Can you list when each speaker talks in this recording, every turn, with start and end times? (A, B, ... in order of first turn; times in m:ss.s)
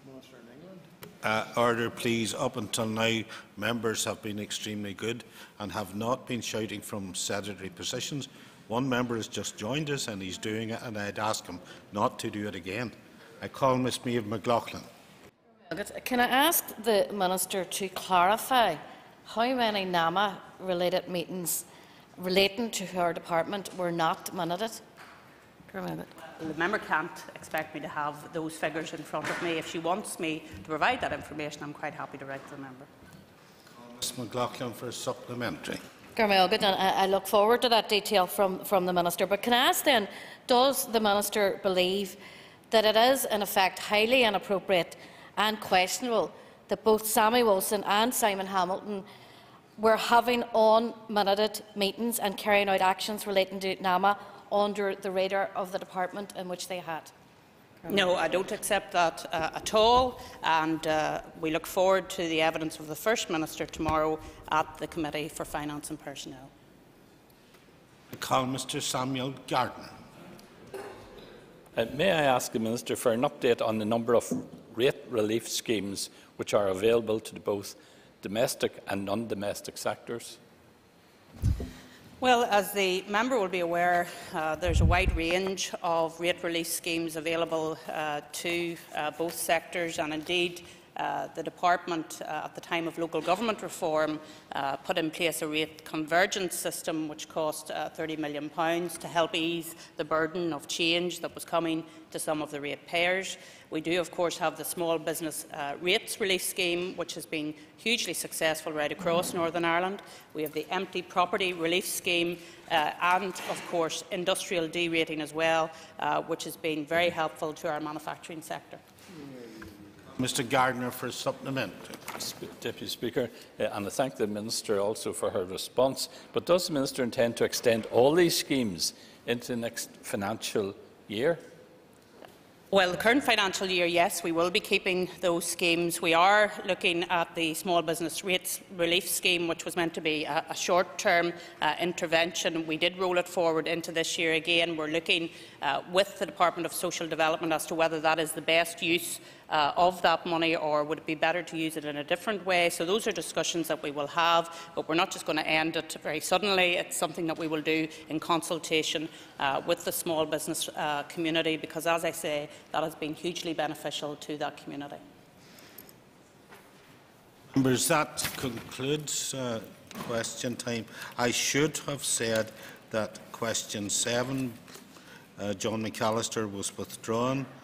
0:01.2-0:14.9 A
0:15.7-0:21.6 B
0:22.2-0:24.8 B
0:25.7-0:26.1 B
0:26.4-0:32.9 C
0:33.9-0:35.8 A
0:36.2-0:42.2 B
0:42.7-0:49.0 B
0:49.8-0:57.1 B
0:57.9-1:06.5 C
1:08.1-1:09.9 A
1:11.8-1:20.4 D
1:22.2-1:58.8 C
2:00.1-2:02.0 A
2:02.2-2:11.4 D
2:12.7-2:45.0 C
2:47.5-2:54.6 A
2:55.4-2:57.5 A